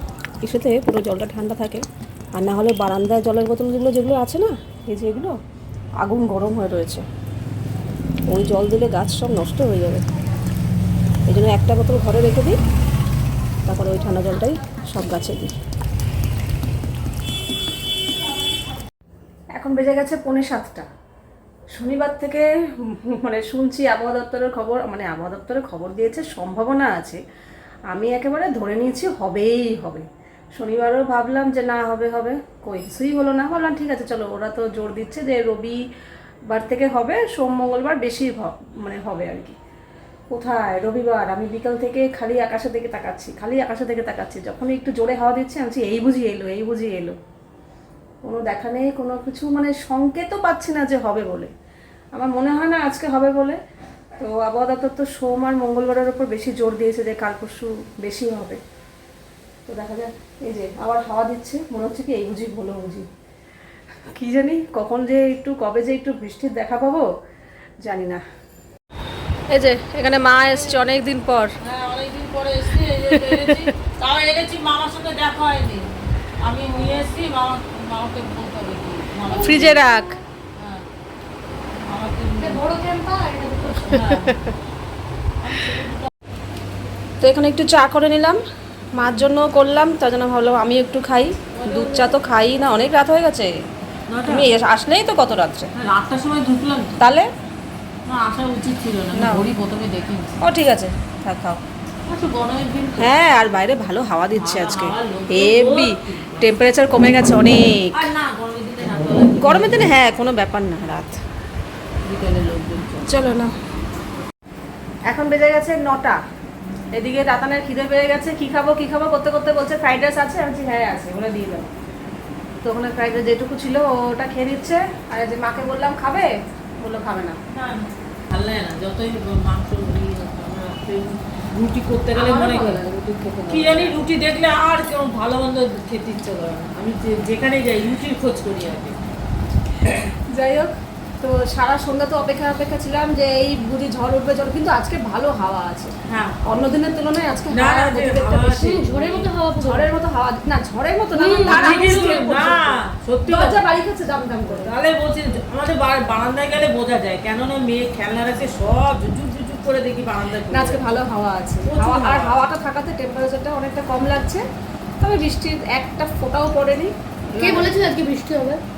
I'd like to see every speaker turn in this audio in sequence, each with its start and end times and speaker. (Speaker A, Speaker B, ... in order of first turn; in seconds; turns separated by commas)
Speaker A: 0.4-5.3, Speaker A: 6.0-7.0, Speaker A: 8.3-10.0, Speaker A: 11.3-12.6, Speaker A: 13.7-15.5, Speaker A: 19.6-20.9, Speaker A: 21.7-27.2, Speaker A: 27.9-35.8, Speaker A: 36.5-39.5, Speaker A: 40.3-47.2, Speaker A: 48.2-51.5, Speaker A: 52.1-53.6, Speaker A: 54.2-58.6, Speaker A: 59.7-63.1, Speaker A: 64.1-67.0, Speaker A: 67.8-68.2, Speaker A: 69.5-71.5, Speaker B: 71.6-75.9, Speaker A: 73.1-73.7, Speaker B: 76.4-79.9, Speaker A: 79.4-80.2, Speaker B: 80.6-80.8, Speaker B: 81.9-82.6, Speaker C: 82.4-84.0, Speaker B: 83.8-84.6, Speaker B: 85.4-86.1, Speaker A: 87.2-88.4, Speaker A: 89.0-93.5, Speaker B: 91.5-92.2, Speaker B: 94.1-94.5, Speaker A: 94.2-95.7, Speaker B: 95.8-96.9, Speaker A: 97.0-97.3, Speaker B: 98.0-100.4, Speaker A: 99.1-99.5, Speaker A: 100.4-101.6, Speaker B: 102.1-103.1, Speaker A: 103.0-108.1, Speaker B: 104.3-106.5, Speaker B: 107.9-109.9, Speaker A: 109.4-111.1, Speaker B: 112.0-113.2, Speaker A: 113.0-113.5, Speaker A: 115.1-116.2, Speaker A: 116.9-121.7, Speaker A: 122.6-127.4, Speaker B: 127.5-132.8, Speaker A: 132.1-134.0, Speaker B: 133.5-139.0, Speaker A: 140.0-145.9, Speaker B: 146.1-146.4, Speaker A: 146.4-148.8, Speaker B: 147.5-149.3, Speaker C: 148.6-150.0, Speaker A: 149.6-154.7, Speaker C: 151.2-152.1, Speaker B: 151.3-153.6, Speaker B: 154.4-160.8, Speaker A: 160.5-164.4, Speaker B: 161.6-162.3, Speaker A: 165.0-167.7, Speaker C: 167.4-168.6